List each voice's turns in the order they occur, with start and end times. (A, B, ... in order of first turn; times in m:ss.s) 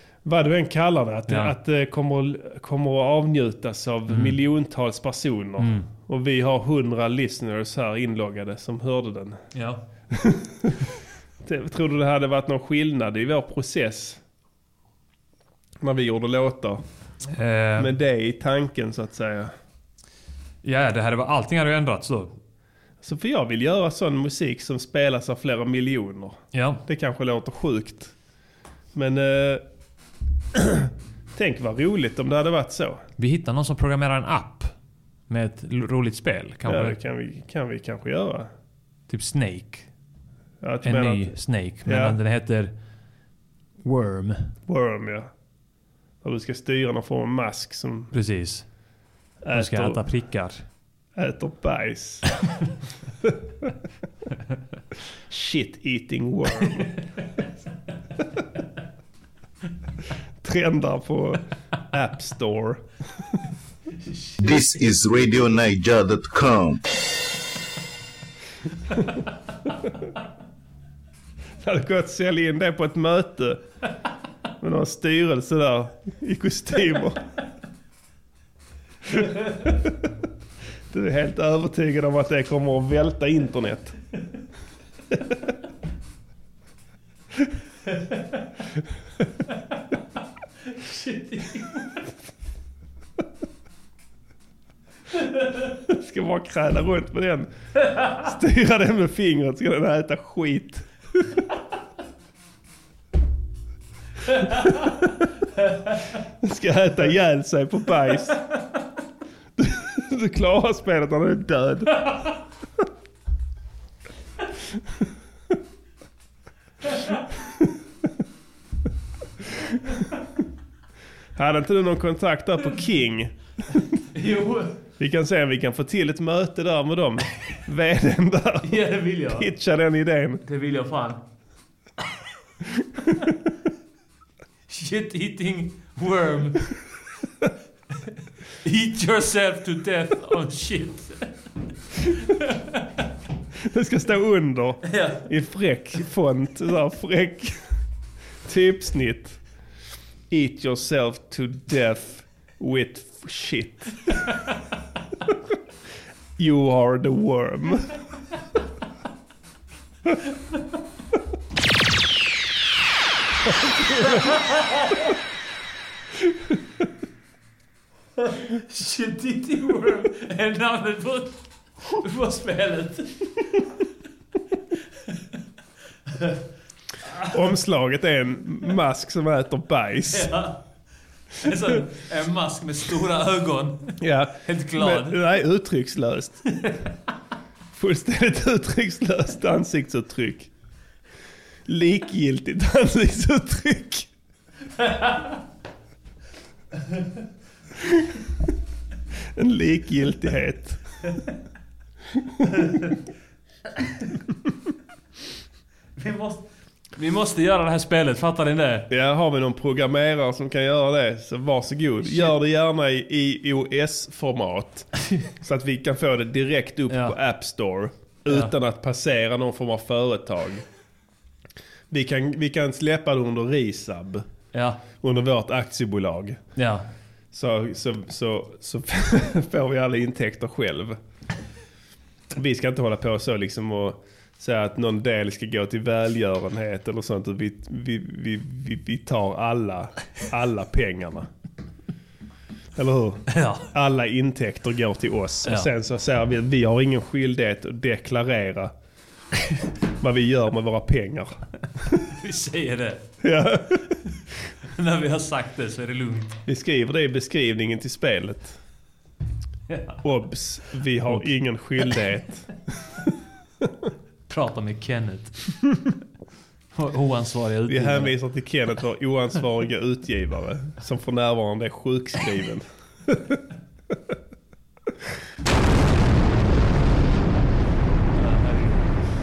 0:00.2-0:09.4 A
0:01.3-0:01.5 B
0:04.1-0:04.4 B
0:05.6-0:05.9 B
0:09.5-0:09.8 B
0:10.1-0:10.8 A
0:11.4-0:14.2 A
0:15.8-0:16.8 A
0:17.3-0:17.9 B
0:17.8-0:19.5 A
0:20.6-0:22.4 B
0:23.0-0:28.1 A
0:26.5-0:26.8 B
0:29.0-0:29.6 A
0:30.6-0:33.0 A
0:33.2-0:34.7 B
0:35.3-0:37.0 B
0:36.7-0:38.5 A
0:39.1-0:39.9 B
0:40.6-0:42.2 A
0:40.8-0:42.7 B
0:43.8-0:44.5 B
0:44.7-0:45.3 A
0:46.2-0:48.1 A
0:48.1-0:48.7 B
0:49.4-0:50.0 A
0:49.5-0:50.6 B
0:51.2-0:52.3 A
0:55.3-0:57.0 A
1:00.4-1:02.8 A
1:04.4-1:06.8 C
1:11.6-1:13.6 A
1:14.6-1:17.2 A
1:19.2-1:19.9 A
1:20.9-1:23.9 A
1:30.7-1:32.0 B
1:35.8-1:41.2 A
1:46.4-1:48.4 A
1:49.6-1:52.2 A
2:01.4-2:03.3 A
2:04.1-2:04.8 B
2:05.0-2:10.4 A
2:08.6-2:09.5 B
2:10.5-2:11.2 B
2:14.7-2:16.7 B
2:18.6-2:21.3 B
2:22.2-2:22.6 B
2:23.7-2:27.6 A
2:24.9-2:25.2 B
2:28.5-2:29.4 A
2:30.3-2:34.1 A
2:36.4-2:38.0 A
2:44.0-2:44.9 B
2:48.4-2:53.5 B
2:57.3-3:00.3 A
3:00.1-3:00.6 B
3:01.4-3:05.2 B
3:04.0-3:06.5 A
3:07.8-3:10.5 A
3:11.7-3:14.1 A
3:19.4-3:20.8 A
3:26.0-3:26.4 B
3:27.0-3:28.9 B
3:28.9-3:40.6 A
3:32.1-3:32.3 B
3:36.9-3:37.2 B
3:41.9-3:44.3 A
3:44.5-3:44.8 B
3:45.0-3:46.4 A
3:46.6-3:46.9 B
3:47.3-3:51.0 A
3:52.4-4:01.3 A
4:02.8-4:08.7 A
4:03.3-4:03.7 B
4:10.0-4:11.4 A
4:12.0-4:13.1 B
4:13.2-4:14.0 A
4:14.7-4:16.4 B
4:16.5-4:18.6 A
4:19.7-4:20.0 B
4:20.0-4:22.5 A
4:24.3-4:25.6 B
4:26.7-4:28.1 B
4:27.7-4:33.4 A
4:38.2-4:38.8 B